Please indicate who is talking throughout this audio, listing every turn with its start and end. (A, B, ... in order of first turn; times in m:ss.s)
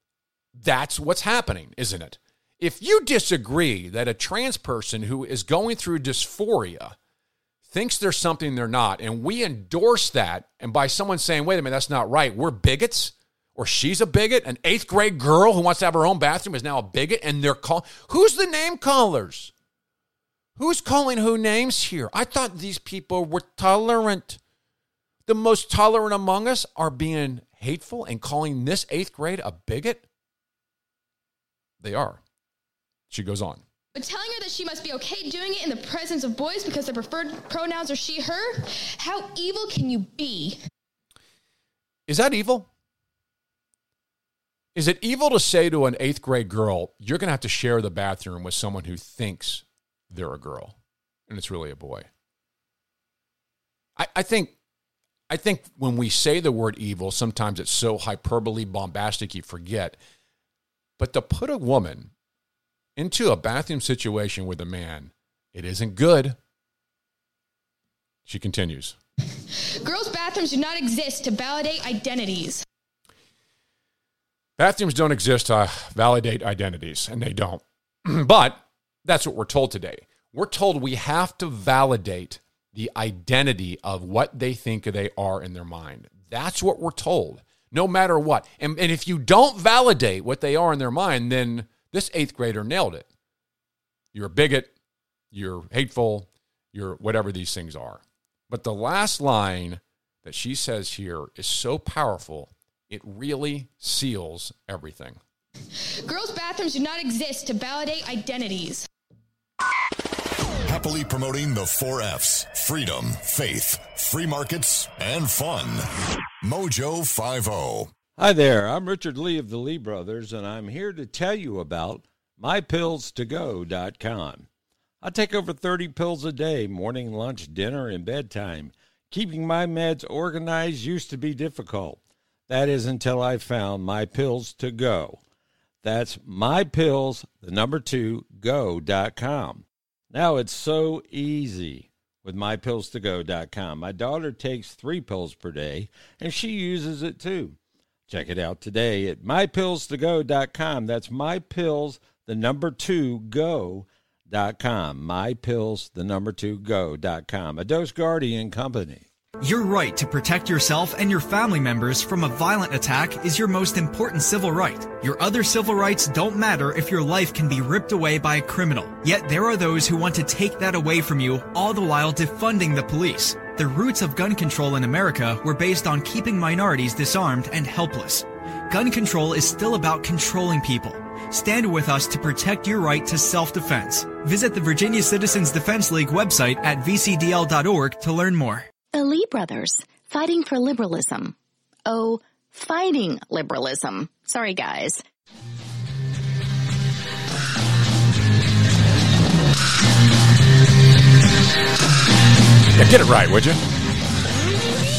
0:00.5-0:07.0 A
0:07.7-0:19.5 A
0:20.6-0:24.4 A
0:25.3-0:30.1 A
0:31.8-0:32.2 A
0:33.1-0:33.6 A
0:34.0-0:40.6 B
0:42.1-0:42.7 A
0:44.8-0:50.8 A
0:51.3-0:52.1 A
0:54.0-0:54.6 A
0:55.3-1:00.0 A
1:01.0-1:02.1 A
1:03.0-1:06.4 A
1:08.3-1:09.0 A
1:09.8-1:12.6 B
1:14.6-1:33.1 A
1:34.1-1:34.7 A
1:35.3-1:45.2 A
1:46.1-1:48.9 B
1:50.6-1:55.9 C
1:56.4-1:57.9 C
1:58.2-2:04.5 D
2:05.0-2:15.2 D
2:15.8-2:27.6 D
2:28.1-2:39.1 D
2:39.4-3:08.7 E
3:08.9-3:11.4 F
3:11.9-3:15.0 F
3:22.8-3:23.6 A